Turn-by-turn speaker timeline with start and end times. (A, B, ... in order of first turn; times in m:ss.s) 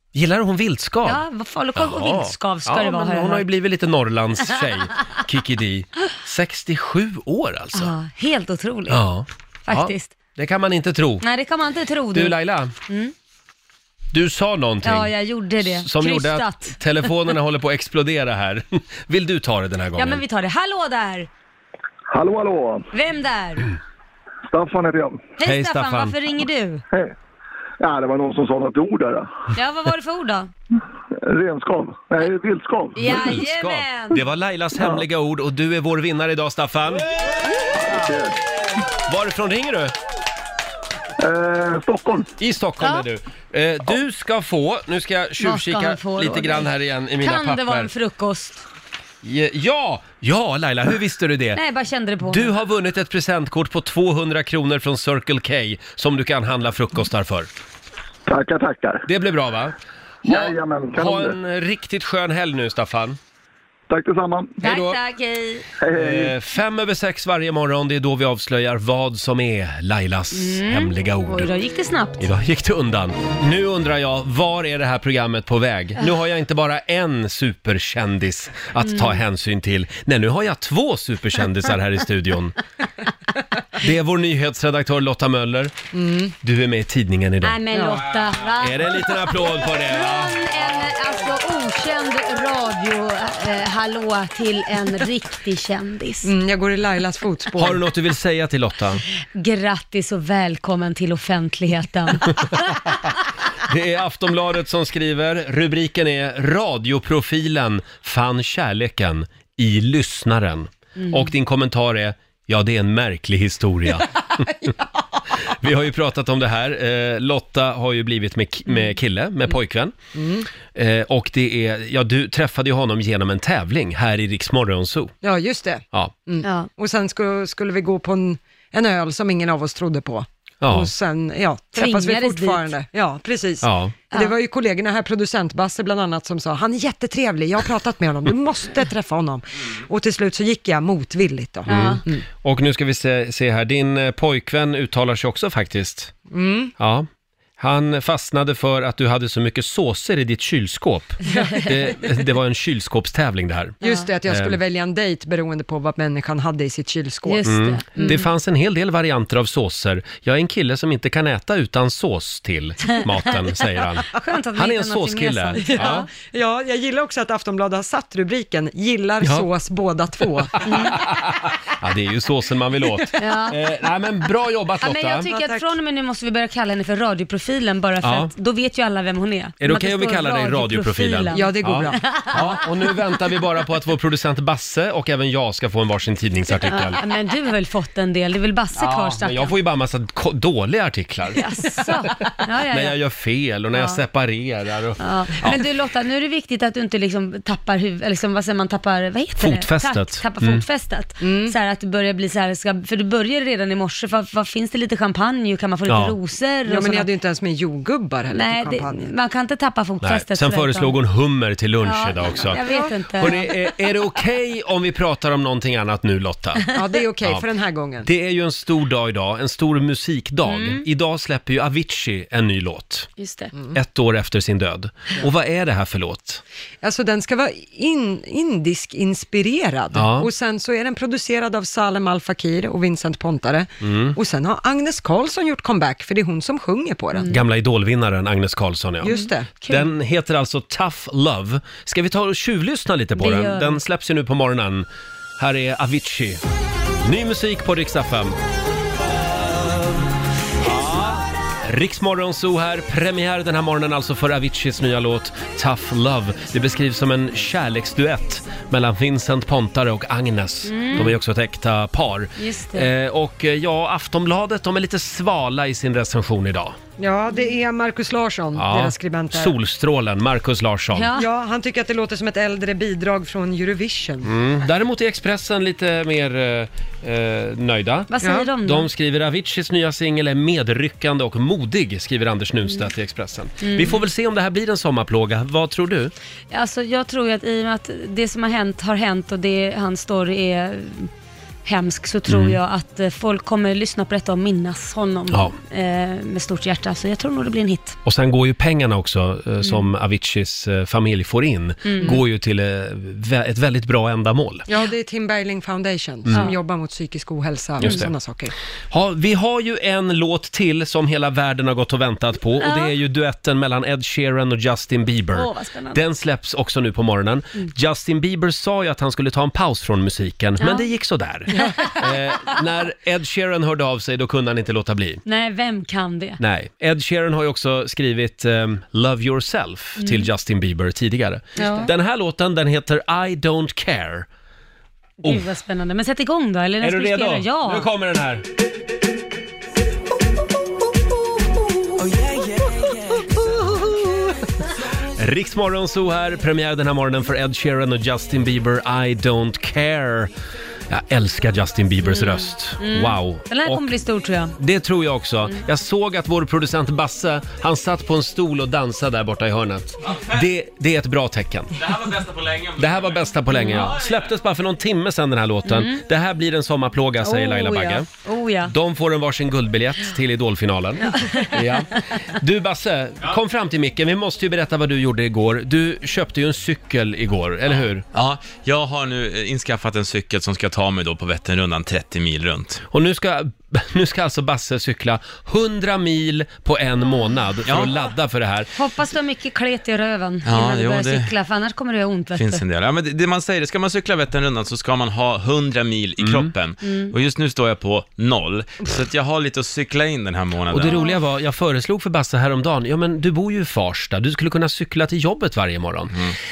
0:00.1-0:01.2 A
0:01.0-0:03.5 B
0:01.8-0:07.9 A
0:07.7-0:09.0 B
0:08.9-0:11.2 A
0:09.6-0:10.1 B
0:11.2-0:13.1 B
0:12.1-0:12.7 A
0:14.1-0:20.2 A
0:14.8-0:16.8 B
0:20.0-0:21.3 B
0:22.1-0:22.9 C
0:22.9-0:23.7 B
0:24.5-0:25.3 C
0:25.4-0:26.8 B
0:25.4-0:26.2 A
0:27.8-0:29.5 C
0:29.5-0:30.5 B
0:31.2-0:33.3 C
0:32.9-0:34.2 B
0:33.0-0:37.0 A
0:37.8-0:38.4 C
0:39.1-0:39.9 A
0:41.2-0:42.3 C
0:42.4-0:47.9 A
0:45.4-0:48.6 B
0:49.2-0:51.6 A
0:51.5-0:52.5 B
0:52.2-0:57.5 A
0:58.3-0:59.0 C
0:59.1-0:59.8 A
1:00.2-1:01.4 C
1:00.3-1:03.2 A
1:03.9-1:04.6 C
1:04.6-1:05.0 A
1:04.6-1:05.6 B
1:05.8-1:06.3 C
1:05.9-1:11.5 A
1:10.3-1:12.3 B
1:12.2-1:22.6 A
1:18.8-1:19.2 B
1:23.8-1:25.7 A
1:25.9-1:26.3 D
1:26.4-1:27.6 A
1:27.4-1:36.3 B
1:27.7-1:28.0 D
1:28.6-1:30.4 A
1:36.2-1:37.8 D
1:37.6-1:39.0 A
1:39.3-1:42.9 B
1:43.7-1:54.5 A
1:51.0-1:51.3 B
1:55.4-1:59.9 A
2:00.2-2:00.5 D
2:00.7-2:05.2 A
2:05.2-2:22.2 D
2:06.4-2:06.7 B
2:10.6-2:10.9 A
2:11.8-2:12.7 B
2:13.6-2:13.9 A
2:21.7-2:22.0 B
2:21.7-2:26.1 A
2:26.3-2:26.7 D
2:26.8-2:27.1 A
2:27.6-2:34.6 A
2:31.3-2:31.7 D
2:31.3-2:31.6 B
2:33.8-2:37.4 D
2:37.3-2:38.3 B
2:37.4-2:46.1 A
2:44.1-2:46.1 B
2:45.6-2:50.9 D
2:49.2-2:49.5 A
2:50.7-2:51.0 B
2:50.7-2:55.3 A
2:53.2-2:53.6 B
2:54.8-3:02.6 B
2:55.3-2:55.7 D
2:58.0-2:58.3 A
2:59.6-3:07.0 A
3:01.3-3:02.2 D
3:06.6-3:09.6 B
3:08.8-3:15.6 A
3:11.4-3:13.0 B
3:13.7-3:14.0 B
3:15.0-3:27.1 B
3:19.4-3:20.6 A
3:21.2-3:21.6 D
3:25.9-3:26.2 A
3:26.7-3:29.1 D
3:28.3-3:30.9 B
3:30.0-3:32.6 A
3:31.8-3:33.7 B
3:32.6-3:32.9 D
3:33.2-3:36.7 A
3:36.7-3:38.1 D
3:38.0-3:43.1 A
3:40.5-3:40.8 B
3:43.2-3:43.5 B
3:43.7-3:46.4 A
3:46.8-3:57.3 D
3:49.9-3:50.3 A
3:53.8-3:54.2 A
3:57.2-3:57.4 B
3:57.3-4:04.9 A
3:59.0-3:59.5 D
3:59.0-3:59.9 B
4:03.2-4:03.8 B
4:05.4-4:06.4 A
4:07.0-4:08.4 A
4:10.6-4:26.8 A
4:20.7-4:21.2 B
4:22.4-4:22.9 B
4:27.0-4:29.6 D
4:28.6-4:31.1 A
4:30.9-4:31.3 B
4:31.1-4:34.3 D
4:34.2-4:46.1 A
4:38.1-4:38.9 B
4:38.2-4:38.5 D
4:43.6-4:44.0 B
4:46.5-4:51.1 B
4:51.6-4:58.0 B
4:52.3-4:52.6 A
4:58.0-5:04.6 A
4:59.6-4:59.9 B
5:01.8-5:02.2 B
5:04.7-5:08.5 D
5:07.8-5:08.1 A
5:08.9-5:25.2 A
5:12.6-5:12.9 B
5:15.3-5:16.0 B
5:20.6-5:20.9 B
5:21.5-5:22.1 B
5:25.3-5:26.4 B
5:26.4-5:34.3 A
5:30.0-5:30.3 B
5:31.6-5:31.9 B
5:35.2-5:37.9 B
5:36.8-5:38.4 A
5:45.2-5:50.3 A
5:50.9-5:53.9 A
5:52.0-5:54.6 B
5:54.6-6:01.8 A
6:01.8-6:03.2 E
6:02.8-6:08.1 A
6:03.5-6:03.9 B
6:05.7-6:06.0 B
6:07.2-6:08.7 B
6:08.7-6:18.0 A
6:11.1-6:11.6 B
6:18.1-6:22.8 E
6:22.9-6:28.7 A
6:27.7-6:27.9 E
6:28.7-6:32.6 B
6:30.4-6:31.3 E
6:32.3-6:41.0 E
6:36.2-6:36.5 A
6:36.8-6:37.1 B
6:40.7-6:46.2 A
6:40.9-6:41.2 B